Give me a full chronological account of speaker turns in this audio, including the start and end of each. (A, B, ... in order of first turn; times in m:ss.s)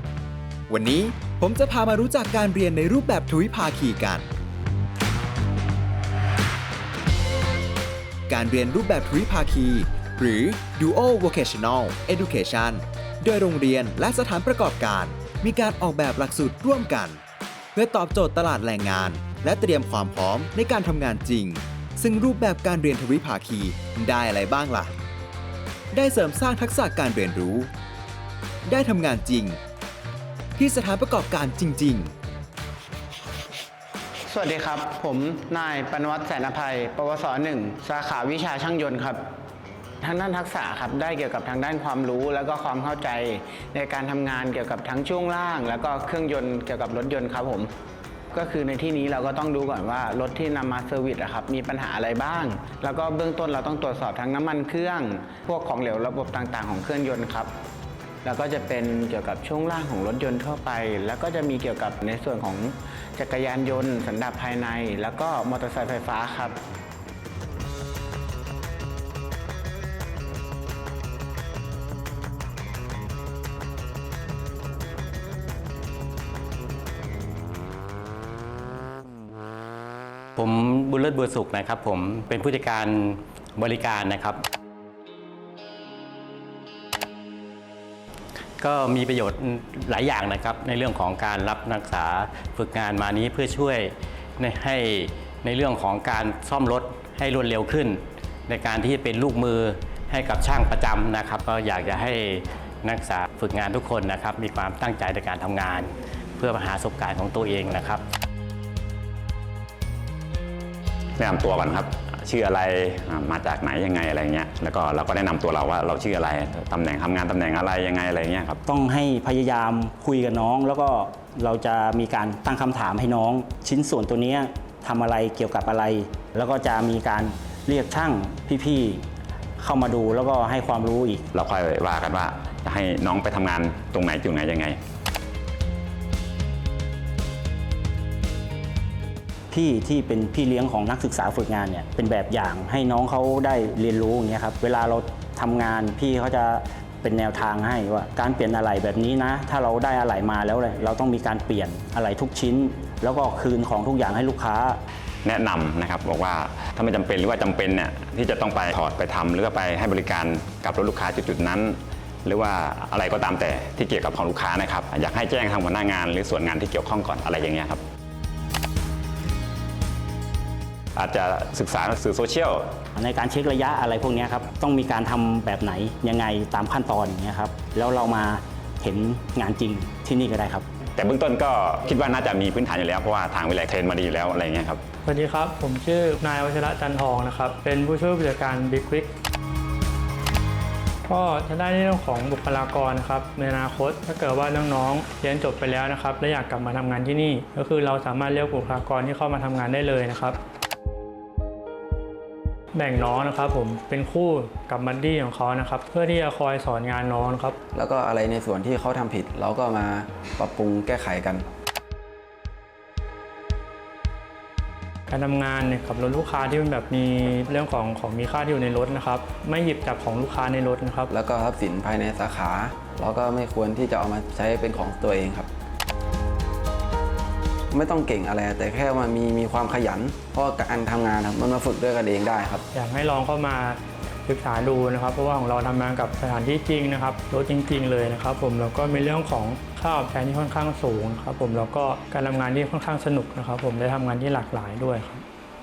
0:00.7-0:04.2 A
0:08.3-0:17.2 A
0:17.8-0:24.9 A
0:25.9-0:27.7 A
0:28.7-0:29.6 A
0:30.6-0:32.1 A
0:34.3-0:39.2 B
0:40.0-0:47.7 B
0:48.3-0:57.6 B
0:58.2-1:06.6 B
1:20.4-1:24.4 C
1:28.6-1:48.0 C
1:51.2-1:58.6 D
1:58.6-2:09.0 E
2:09.6-2:11.2 E
2:11.3-2:14.8 D
2:19.5-2:34.8 E
2:35.2-2:47.8 D
2:51.0-2:52.6 D
2:53.0-3:00.6 E
3:01.0-3:04.8 D
3:05.0-3:09.1 F
3:11.1-3:20.4 F
3:22.7-3:27.6 F
3:27.7-3:31.4 G
3:35.1-3:41.1 F
3:41.1-3:45.5 G
3:47.7-3:52.6 G
3:52.7-4:05.2 F